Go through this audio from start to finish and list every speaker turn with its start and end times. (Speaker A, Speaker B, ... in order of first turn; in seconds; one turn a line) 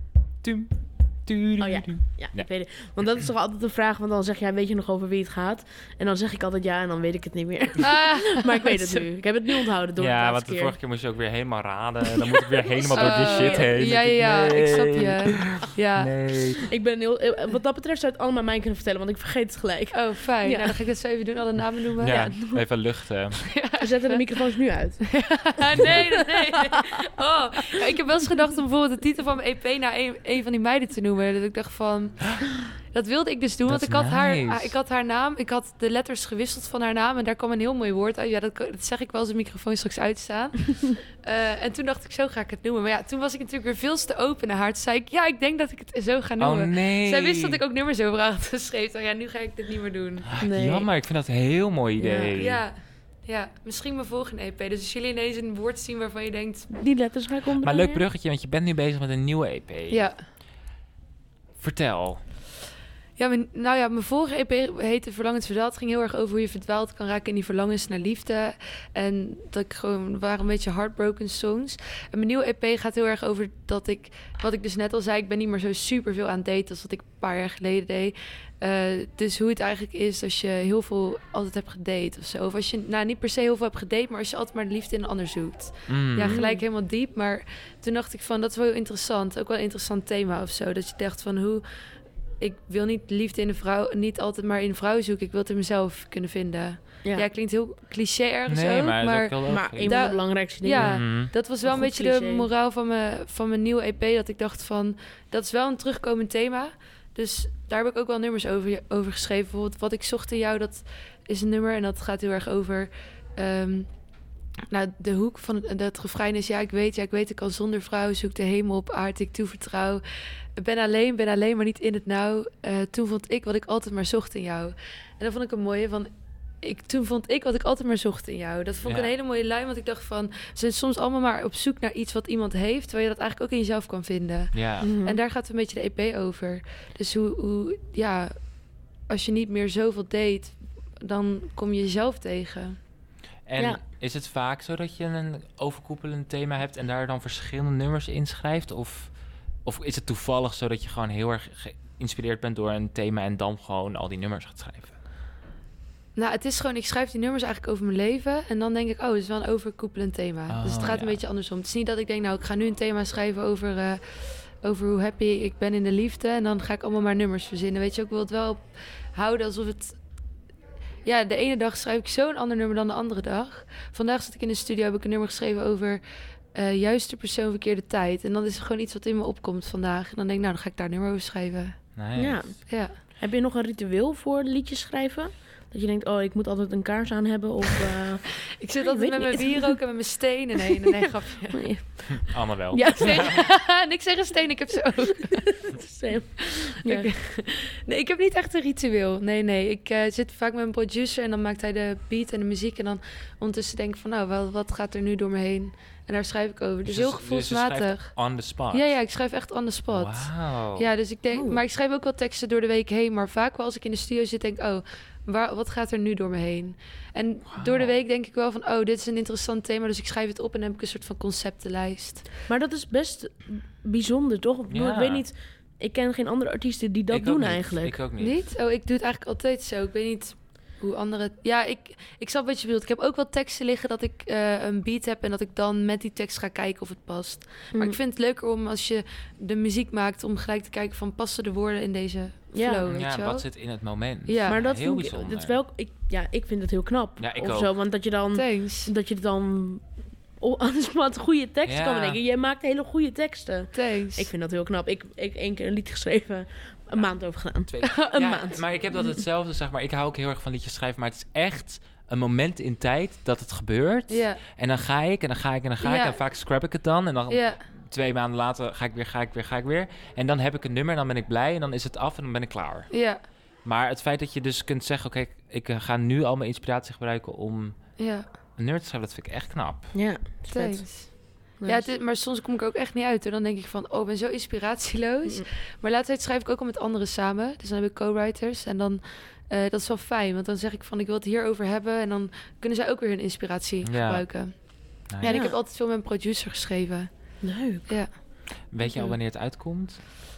Speaker A: 0.4-2.5
Speaker B: 1.6-10.8
Speaker C: 7.8-9.1
Speaker A: 10.0-16.6
Speaker B: 12.8-13.8
Speaker C: 12.9-16.1
Speaker B: 16.7-20.8
Speaker C: 19.9-22.4
Speaker A: 22.0-23.4
Speaker B: 22.2-22.6
Speaker C: 23.5-24.4
Speaker B: 23.8-26.9
Speaker C: 25.1-50.3
Speaker A: 33.7-34.8
Speaker A: 46.4-47.6
Speaker A: 50.3-52.6
Speaker B: 50.4-50.9
Speaker B: 52.0-52.4
Speaker C: 52.4-56.7
Speaker B: 56.7-58.0
Speaker A: 57.6-60.1
Speaker C: 59.9-60.2
Speaker A: 61.6-62.2
Speaker C: 63.2-91.6
Speaker A: 85.9-86.4
Speaker B: 86.2-86.7
Speaker C: 92.4-113.9
Speaker A: 98.5-100.2
Speaker B: 99.5-102.5
Speaker A: 100.8-101.3
Speaker C: 114.7-120.0
Speaker C: 120.6-126.1
Speaker C: 126.6-138.4
Speaker A: 128.8-129.1
Speaker A: 134.5-134.9
Speaker B: 134.8-135.2
Speaker C: 139.1-142.8
Speaker A: 143.5-154.9
Speaker C: 156.2-164.0
Speaker A: 160.5-161.2
Speaker C: 164.6-170.0
Speaker C: 171.1-176.0
Speaker C: 176.6-181.9
Speaker A: 182.0-182.6
Speaker B: 182.2-189.8
Speaker C: 182.7-182.9
Speaker C: 188.6-192.0
Speaker B: 191.5-193.4
Speaker A: 192.2-193.3
Speaker C: 192.8-195.6
Speaker B: 195.6-197.1
Speaker C: 196.5-222.4
Speaker A: 206.8-209.0
Speaker A: 209.9-210.9
Speaker B: 211.3-211.6
Speaker A: 217.5-217.9
Speaker B: 222.5-228.0
Speaker A: 224.7-225.3
Speaker A: 227.1-228.4
Speaker C: 228.2-243.5
Speaker B: 237.7-238.0
Speaker B: 242.5-242.9
Speaker A: 242.9-245.6
Speaker C: 244.3-244.6
Speaker B: 244.5-258.6
Speaker A: 247.2-247.7
Speaker C: 248.3-248.9
Speaker A: 251.7-252.2
Speaker C: 253.7-254.3
Speaker A: 257.6-272.9
Speaker C: 264.1-264.4
Speaker C: 265.8-266.2
Speaker C: 267.3-267.6
Speaker C: 272.9-273.2
Speaker A: 273.6-277.8
Speaker C: 278.0-278.3
Speaker A: 278.6-279.9
Speaker B: 279.9-280.9
Speaker C: 280.5-297.1
Speaker B: 281.6-281.9
Speaker A: 293.8-294.2
Speaker A: 295.1-295.4
Speaker B: 295.2-295.6
Speaker B: 297.4-297.9
Speaker C: 297.9-298.1
Speaker A: 298.7-300.0
Speaker C: 298.8-299.1